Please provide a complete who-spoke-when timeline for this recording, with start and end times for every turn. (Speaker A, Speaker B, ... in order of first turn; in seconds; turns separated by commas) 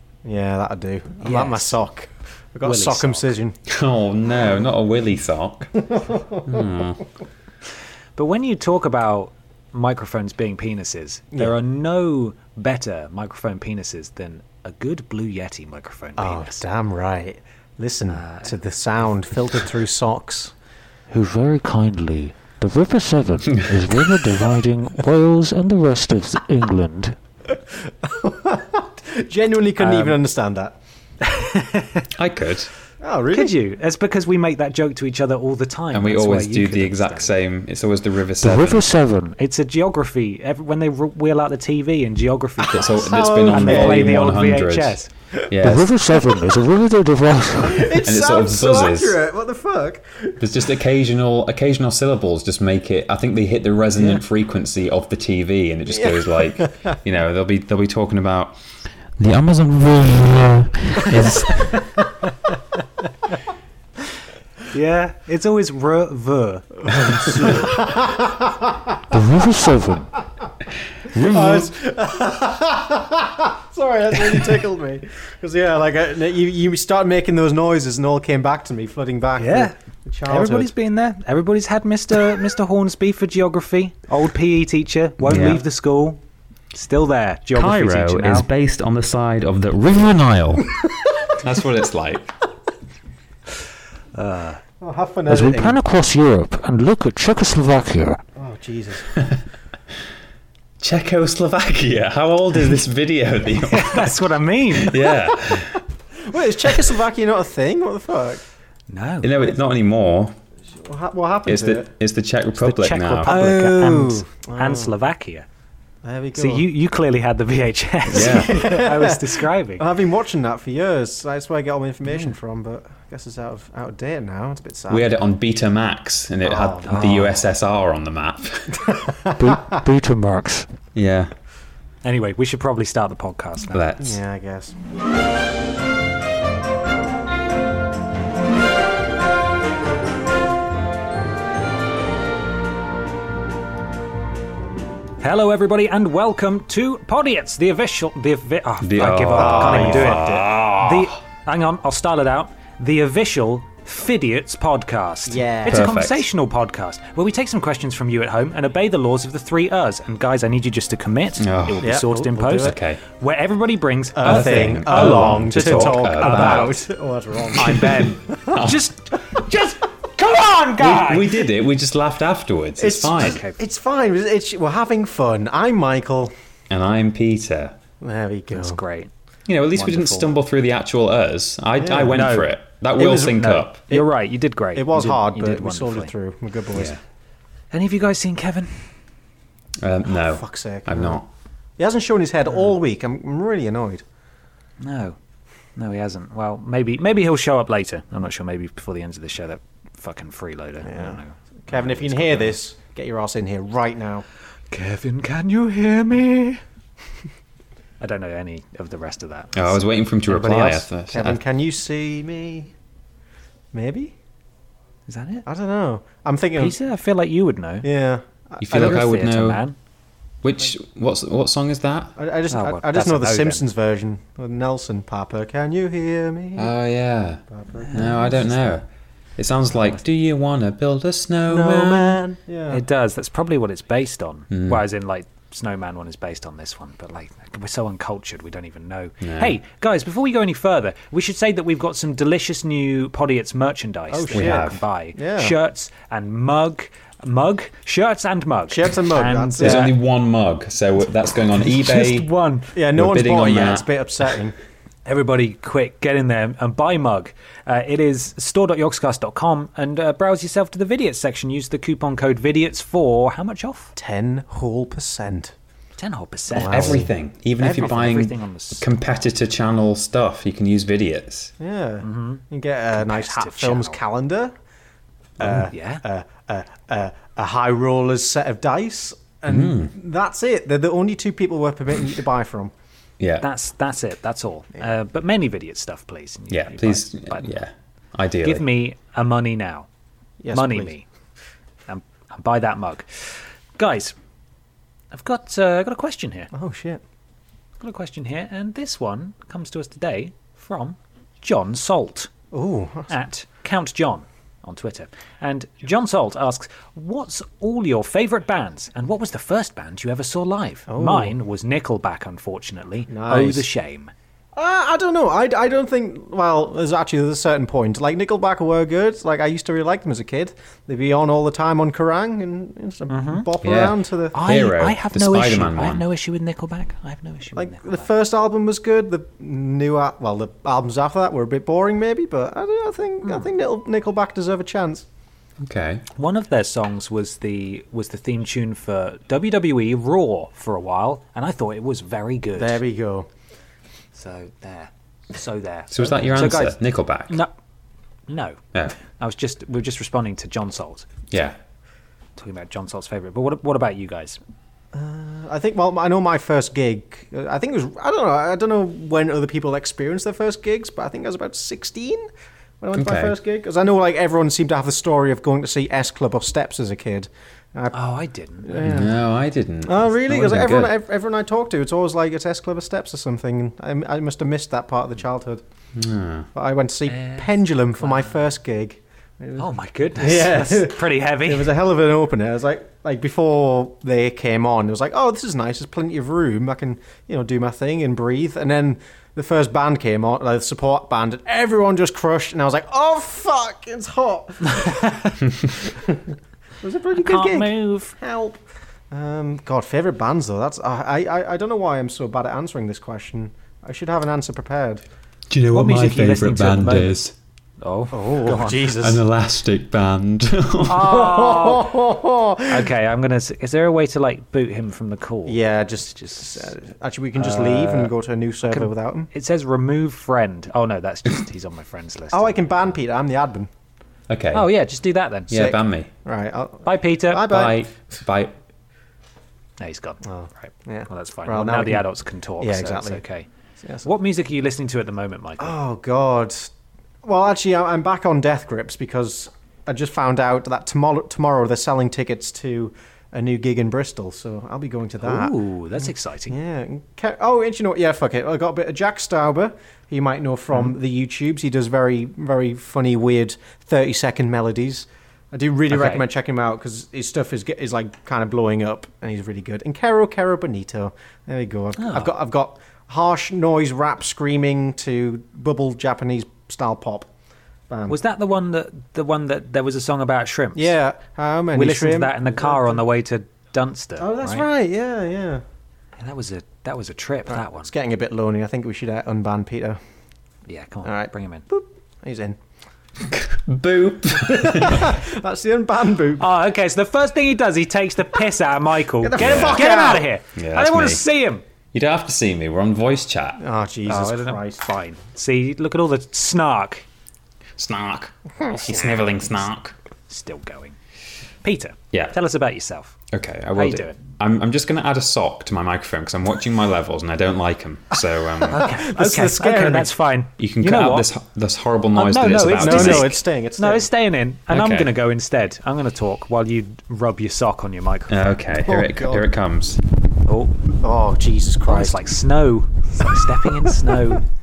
Speaker A: 0.2-3.6, Speaker B: 1.2-1.8, Speaker B: 2.6-3.3, Speaker C: 3.7-7.0, Speaker B: 8.2-16.6, Speaker A: 16.2-20.5, Speaker B: 18.1-18.6, Speaker D: 21.1-27.1, Speaker A: 27.8-30.8, Speaker B: 31.2-32.1, Speaker C: 32.1-32.7, Speaker A: 33.0-33.6, Speaker B: 33.3-37.3, Speaker C: 35.9-38.9, Speaker D: 38.4-39.3, Speaker B: 39.3-45.1, Speaker C: 42.7-45.0, Speaker A: 43.0-44.2, Speaker C: 45.5-45.9, Speaker D: 45.6-47.9, Speaker A: 47.6-50.4, Speaker C: 48.0-49.2, Speaker C: 50.4-58.6, Speaker A: 55.9-56.9, Speaker D: 59.2-61.5, Speaker C: 61.0-61.9, Speaker B: 64.7-67.8, Speaker A: 67.4-68.8, Speaker D: 69.1-70.2, Speaker D: 71.1-71.6, Speaker A: 71.2-80.7, Speaker B: 79.4-79.7, Speaker B: 80.2-86.2, Speaker C: 85.2-85.6, Speaker B: 86.7-88.5, Speaker C: 87.5-92.4, Speaker B: 94.1-94.6, Speaker A: 94.8-95.8, Speaker D: 95.3-98.2, Speaker A: 98.3-99.1, Speaker C: 100.8-105.8, Speaker B: 103.7-105.0, Speaker A: 106.1-108.4, Speaker B: 108.9-109.3, Speaker C: 109.2-110.3, Speaker A: 110.7-111.9, Speaker C: 111.5-113.3, Speaker B: 112.6-115.5, Speaker A: 113.2-114.9, Speaker A: 116.0-116.7, Speaker B: 116.3-119.8, Speaker C: 118.1-118.8, Speaker A: 118.1-125.1, Speaker C: 124.9-128.8, Speaker A: 126.4-127.4, Speaker B: 126.9-127.3, Speaker A: 128.9-129.8, Speaker D: 129.4-130.7, Speaker C: 130.9-131.3, Speaker B: 132.0-133.8, Speaker C: 133.7-134.2, Speaker A: 134.0-134.8, Speaker B: 145.2-166.8, Speaker C: 148.8-151.2, Speaker A: 149.3-150.5, Speaker A: 155.2-155.9, Speaker C: 155.7-156.3, Speaker C: 161.4-161.9, Speaker A: 161.8-162.8, Speaker C: 162.6-163.0, Speaker A: 164.1-168.0, Speaker C: 164.2-166.8, Speaker B: 167.6-171.4, Speaker C: 167.7-168.9, Speaker C: 170.8-173.4, Speaker A: 172.8-176.3, Speaker B: 173.2-173.6, Speaker C: 176.7-177.8, Speaker A: 178.0-178.8, Speaker B: 178.5-179.1, Speaker C: 179.5-183.8, Speaker B: 179.7-180.3, Speaker A: 181.8-182.3, Speaker B: 182.1-182.5, Speaker A: 183.0-184.1, Speaker B: 183.3-186.1, Speaker A: 184.7-186.9, Speaker C: 186.7-187.0, Speaker B: 187.7-188.9, Speaker C: 189.8-191.3, Speaker A: 190.1-191.2, Speaker A: 191.8-194.0, Speaker B: 194.8-195.2, Speaker B: 195.8-202.6, Speaker A: 200.8-204.2, Speaker B: 204.7-206.6, Speaker B: 208.0-210.8, Speaker C: 209.5-211.4, Speaker A: 211.1-212.7, Speaker A: 213.7-214.1, Speaker B: 215.1-215.4, Speaker A: 215.4-216.8, Speaker B: 216.6-217.9, Speaker A: 217.8-219.1, Speaker C: 218.6-219.6, Speaker B: 218.7-219.8, Speaker C: 220.4-222.2, Speaker A: 222.2-226.7, Speaker B: 222.5-223.7, Speaker C: 226.6-228.8, Speaker A: 227.5-228.2, Speaker B: 227.8-228.7, Speaker C: 229.4-232.2, Speaker A: 231.5-232.8, Speaker B: 232.7-249.9, Speaker C: 234.5-234.8, Speaker C: 239.2-239.6, Speaker A: 244.1-245.6, Speaker C: 244.3-244.8, Speaker A: 248.7-249.9, Speaker C: 249.6-252.3, Speaker B: 251.6-252.7, Speaker A: 252.7-254.5, Speaker C: 252.9-253.9, Speaker B: 255.0-263.9, Speaker A: 263.9-265.5, Speaker B: 266.0-267.1, Speaker A: 266.5-267.1, Speaker C: 266.7-271.5, Speaker B: 267.6-268.8, Speaker A: 267.7-268.1, Speaker A: 271.6-274.5, Speaker B: 272.0-272.4, Speaker B: 272.9-274.0, Speaker A: 275.4-282.7, Speaker B: 275.4-276.0, Speaker C: 279.5-279.9, Speaker C: 283.2-283.4, Speaker B: 283.4-287.5, Speaker C: 286.5-288.6, Speaker B: 288.4-289.9, Speaker A: 290.4-290.9, Speaker B: 290.5-291.0, Speaker B: 291.9-294.1, Speaker B: 295.1-296.5, Speaker A: 296.5-297.0, Speaker B: 297.8-302.3, Speaker A: 302.5-303.1, Speaker B: 303.1-314.1, Speaker A: 310.9-311.3, Speaker A: 313.1-313.7, Speaker A: 314.5-324.4, Speaker B: 323.1-323.5, Speaker C: 323.6-326.0, Speaker B: 324.3-328.1, Speaker A: 327.5-335.1, Speaker C: 335.6-336.1, Speaker B: 336.1-342.8, Speaker A: 342.5-343.3, Speaker B: 344.1-346.8, Speaker C: 345.9-347.4, Speaker B: 348.3-351.1, Speaker C: 351.3-351.6, Speaker B: 352.4-354.4, Speaker A: 354.9-362.3, Speaker A: 362.8-368.0, Speaker C: 362.9-363.4, Speaker B: 367.9-368.9, Speaker A: 368.6-369.2, Speaker C: 368.8-370.9, Speaker A: 369.8-375.6, Speaker C: 375.9-376.5, Speaker A: 376.5-405.0, Speaker B: 377.1-378.4, Speaker B: 379.6-381.7, Speaker B: 394.7-395.3, Speaker B: 397.1-398.1, Speaker C: 405.5-407.3, Speaker B: 405.7-407.1, Speaker B: 407.8-408.9, Speaker A: 408.1-409.2, Speaker C: 408.9-411.1, Speaker B: 410.9-411.9, Speaker A: 410.9-412.9, Speaker B: 412.7-415.6, Speaker A: 415.4-419.3, Speaker B: 416.2-416.5, Speaker B: 417.3-418.1, Speaker B: 418.6-422.9, Speaker A: 422.3-423.7, Speaker C: 424.3-424.8, Speaker B: 424.5-425.6, Speaker C: 425.5-426.1, Speaker A: 425.5-427.9, Speaker B: 426.8-427.5, Speaker C: 427.4-428.6, Speaker B: 429.8-433.5, Speaker A: 430.2-433.2, Speaker A: 433.8-434.1, Speaker B: 434.0-435.8, Speaker A: 435.6-436.7, Speaker A: 437.2-467.3, Speaker B: 445.2-446.6, Speaker B: 455.9-456.2, Speaker B: 462.0-462.3, Speaker A: 467.9-468.2, Speaker B: 468.1-470.9, Speaker A: 470.7-473.0, Speaker B: 471.7-474.7, Speaker A: 474.2-475.6, Speaker B: 476.2-477.9, Speaker A: 477.5-480.0, Speaker B: 480.7-481.7, Speaker A: 481.0-482.6, Speaker C: 483.3-485.1, Speaker A: 484.4-486.5, Speaker B: 486.4-491.6, Speaker A: 489.2-490.3, Speaker C: 489.4-489.8, Speaker C: 490.6-491.2, Speaker C: 491.9-493.6, Speaker A: 493.6-494.8, Speaker B: 494.1-497.1, Speaker C: 497.8-499.9, Speaker B: 500.3-501.0, Speaker B: 501.6-503.1, Speaker C: 503.3-508.8, Speaker B: 503.7-504.2, Speaker A: 508.6-510.1, Speaker B: 508.7-511.3, Speaker C: 510.6-513.3, Speaker B: 512.1-518.5, Speaker A: 512.7-514.1, Speaker C: 514.7-515.1, Speaker C: 518.3-520.0, Speaker A: 518.8-519.5, Speaker B: 520.5-520.8, Speaker A: 521.0-522.2, Speaker B: 521.9-524.4